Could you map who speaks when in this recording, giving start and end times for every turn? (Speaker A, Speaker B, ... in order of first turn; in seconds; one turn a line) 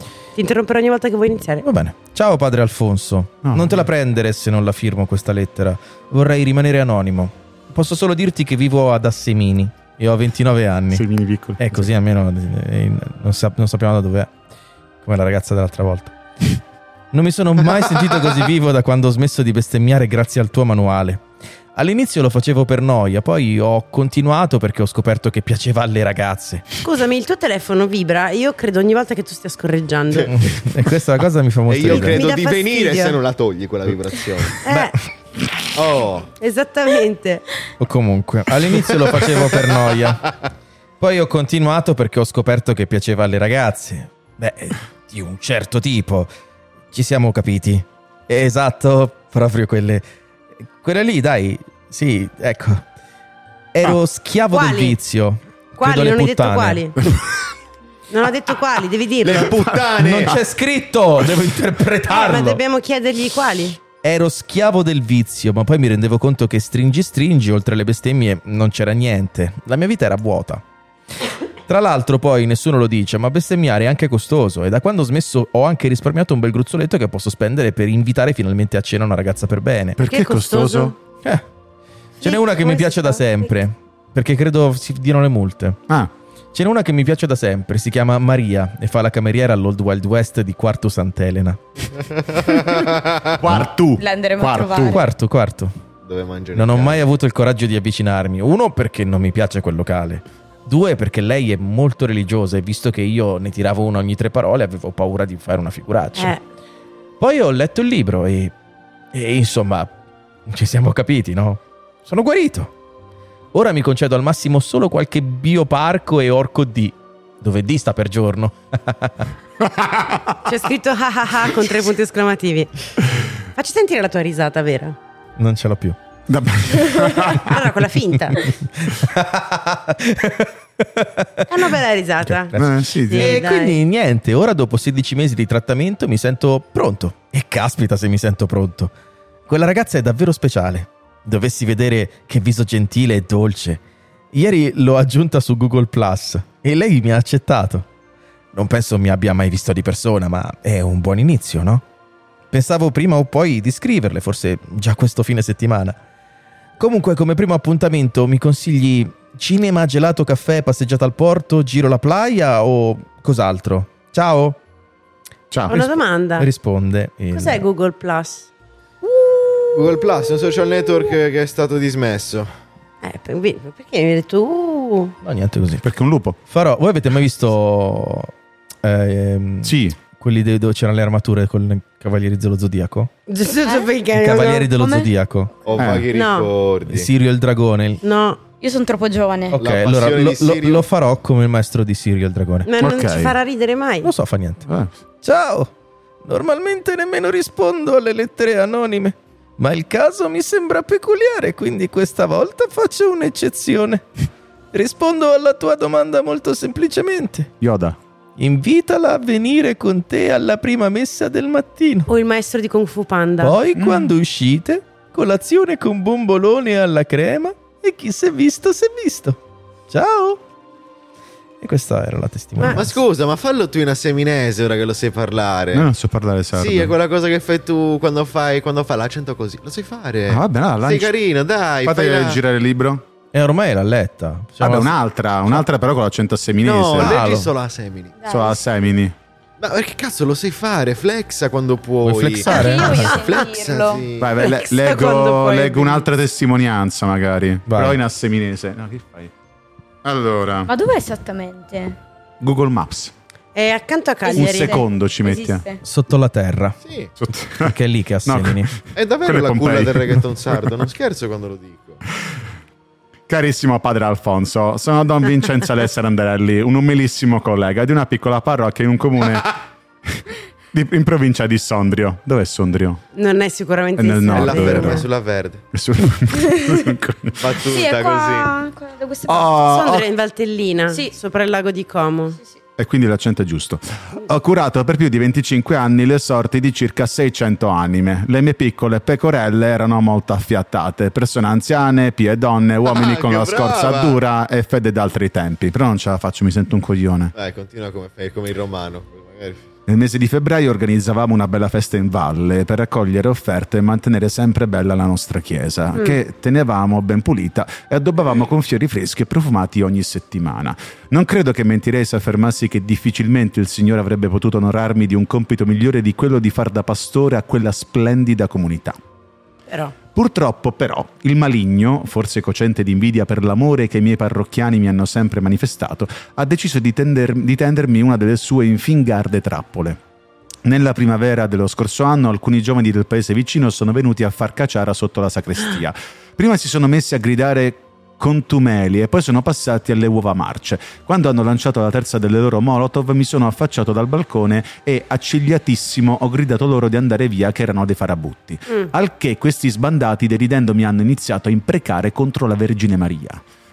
Speaker A: 0.4-1.6
Speaker B: 1.6-11.1
Speaker C: 3.4-3.9
Speaker C: 10.9-11.9
Speaker B: 11.6-14.3
Speaker B: 15.0-16.1
Speaker B: 17.1-21.2
Speaker B: 21.8-26.7
Speaker A: 26.8-30.3
Speaker B: 30.3-32.3
Speaker D: 31.7-34.7
Speaker A: 31.9-33.2
Speaker A: 34.6-35.0
Speaker D: 35.8-36.3
Speaker A: 36.4-37.5
Speaker B: 37.8-40.2
Speaker D: 38.9-40.5
Speaker B: 41.0-46.3
Speaker B: 46.9-50.0
Speaker B: 50.8-52.8
Speaker B: 53.7-56.8
Speaker A: 54.5-55.0
Speaker A: 55.8-57.0
Speaker A: 58.1-59.5
Speaker D: 59.2-60.4
Speaker C: 59.4-60.0
Speaker B: 60.0-62.6
Speaker A: 62.1-63.8
Speaker B: 64.0-70.6
Speaker B: 71.7-80.0
Speaker C: 80.0-81.0
Speaker A: 80.0-81.0
Speaker A: 82.2-83.5
Speaker B: 82.2-85.8
Speaker B: 86.5-91.6
Speaker D: 92.1-93.4
Speaker C: 93.4-95.0
Speaker E: 94.0-95.0
Speaker B: 94.8-95.8
Speaker D: 96.0-97.1
Speaker B: 96.5-106.3
Speaker A: 106.2-106.4
Speaker B: 107.2-108.5
Speaker B: 109.1-109.9
Speaker B: 110.5-112.7
Speaker B: 113.5-119.3
Speaker C: 119.6-120.4
Speaker A: 120.5-122.9
Speaker A: 123.6-125.0
Speaker B: 125.4-126.0
Speaker C: 126.3-127.6
Speaker A: 127.2-128.5
Speaker B: 128.3-131.5
Speaker A: 131.5-133.8
Speaker B: 132.3-138.9
Speaker C: 132.6-133.4
Speaker B: 139.5-143.8
Speaker B: 144.3-147.9
Speaker B: 148.5-151.8
Speaker B: 152.5-156.0
Speaker B: 156.8-164.6
Speaker C: 165.5-165.8
Speaker A: 165.7-166.5
Speaker B: 165.7-167.6
Speaker A: 167.3-168.5
Speaker A: 169.0-170.0
Speaker D: 169.7-172.5
Speaker A: 173.0-175.2
Speaker B: 175.2-175.9
Speaker C: 175.8-176.4
Speaker B: 176.5-178.3
Speaker B: 178.8-183.1
Speaker C: 179.6-180.0
Speaker A: 183.3-184.7
Speaker B: 184.1-185.5
Speaker E: 184.8-185.1
Speaker D: 185.7-187.1
Speaker C: 185.8-186.1
Speaker A: 186.1-186.5
Speaker B: 186.9-188.0
Speaker A: 188.0-188.4
Speaker E: 188.6-189.6
Speaker B: 189.5-192.7
Speaker D: 189.6-190.9
Speaker A: 192.7-194.1
Speaker C: 192.8-193.4
Speaker B: 194.0-194.7
Speaker C: 194.7-194.9
Speaker B: 195.2-195.7
Speaker B: 196.2-204.1
Speaker B: 204.7-207.5
Speaker C: 207.6-208.0
Speaker B: 208.4-212.1
Speaker A: 212.1-213.6
Speaker B: 213.4-219.4
Speaker C: 213.8-214.1
Speaker B: 219.9-220.4
Speaker B: 221.6-223.0
Speaker A: 222.6-222.8
Speaker D: 222.7-225.9
Speaker C: 225.7-226.9
Speaker D: 226.5-232.4
Speaker C: 230.3-231.1
Speaker C: 231.8-233.0
Speaker B: 233.3-234.9
Speaker C: 234.6-237.2
Speaker D: 236.6-238.3
Speaker B: 237.0-237.5
Speaker E: 238.2-238.6
Speaker C: 238.2-239.2
Speaker D: 239.6-244.3
Speaker B: 242.0-243.2
Speaker E: 242.5-244.0
Speaker C: 244.2-249.3
Speaker A: 244.4-246.1
Speaker B: 247.7-248.0
Speaker C: 250.0-250.7
Speaker E: 250.7-252.0
Speaker C: 252.4-253.1
Speaker A: 253.6-254.8
Speaker E: 254.3-255.8
Speaker C: 254.3-255.7
Speaker B: 255.8-256.8
Speaker D: 256.8-257.1
Speaker C: 257.2-260.9
Speaker B: 257.6-258.7
Speaker D: 258.9-262.0
Speaker C: 263.3-269.6
Speaker C: 270.1-273.0
Speaker A: 273.1-275.1
Speaker C: 274.0-275.1
Speaker D: 274.3-275.6
Speaker C: 275.7-277.6
Speaker D: 277.4-278.6
Speaker E: 277.7-279.5
Speaker C: 279.3-280.1
Speaker A: 279.6-282.4
Speaker C: 282.8-297.3
Speaker D: 292.9-294.2
Speaker D: 297.4-299.6
Speaker C: 299.9-319.0
Speaker A: 319.7-319.9
Speaker C: 320.1-330.0
Speaker C: 330.6-353.4